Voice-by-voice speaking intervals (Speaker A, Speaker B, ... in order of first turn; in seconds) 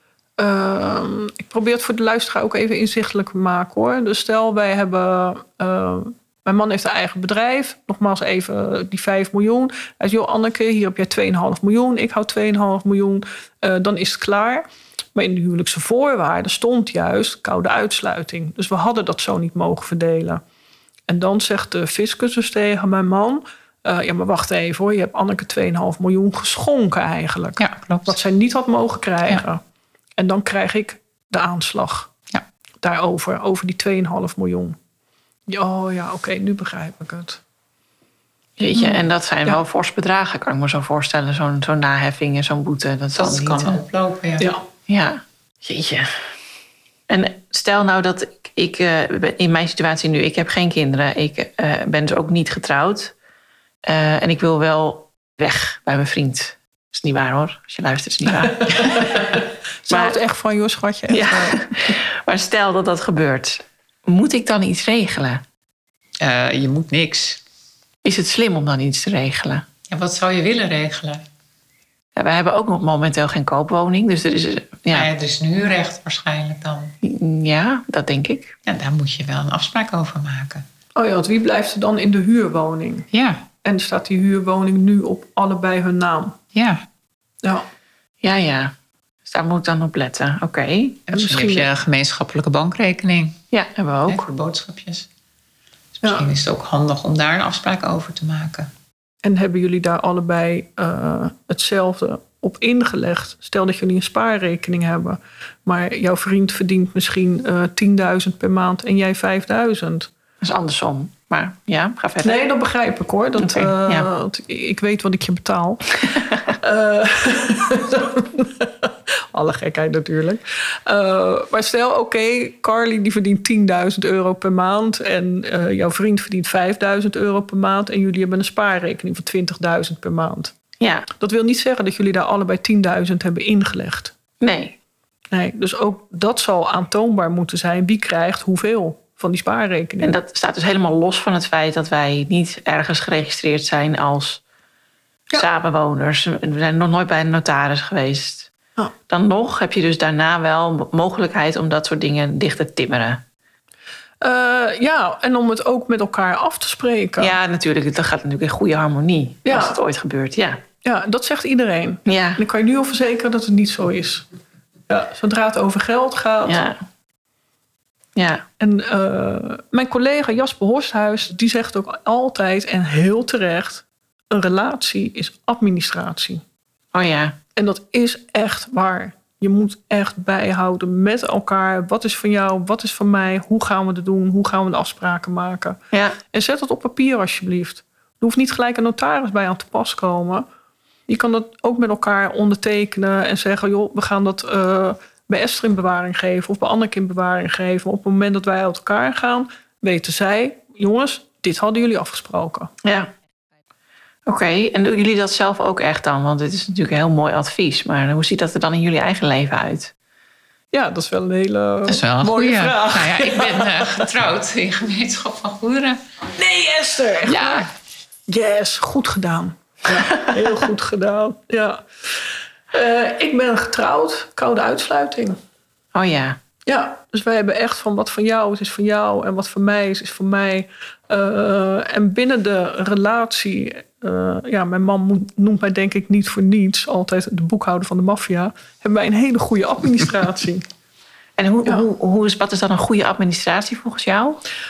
Speaker A: 0.4-20.4, 21.1-29.6, 30.2-32.1, 32.8-34.8, 35.5-37.4, 38.8-39.6, 44.4-44.6, 58.3-61.7, 81.0-83.1, 83.6-86.4, 91.1-91.7, 99.2-110.1, 112.2-130.5, 131.2-134.1, 135.3-140.1, 154.2-157.3, 159.4-159.8, 160.8-164.2, 164.9-166.6, 168.6-176.4, 177.6-185.8, 186.3-190.5, 191.1-202.7, 210.7-214.1, 216.4-217.7, 218.3-222.2, 222.7-225.4, 226.7-240.7
Speaker B: 27.6-28.2, 43.2-44.5, 66.2-67.4, 69.9-71.2, 74.9-76.9, 78.7-80.7, 83.1-83.4, 86.5-86.8, 91.1-93.4, 94.1-95.1, 96.0-98.7, 211.9-216.0, 217.3-217.7
Speaker C: 38.6-43.8, 44.9-46.3, 47.1-53.1, 53.9-59.1, 59.9-60.2, 61.1-65.4, 68.0-69.7, 72.2-75.1, 77.0-78.6, 88.2-91.0, 93.5-94.3, 110.4-112.4, 113.4-114.1, 130.8-131.1, 134.4-134.8, 140.0-144.4, 145.3-148.5, 149.1-153.2, 157.2-160.6, 162.1-162.4, 166.4-166.8, 168.2-168.4, 176.9-177.4, 185.9-186.2, 202.8-203.1, 204.3-209.9, 225.9-226.4, 241.4-244.4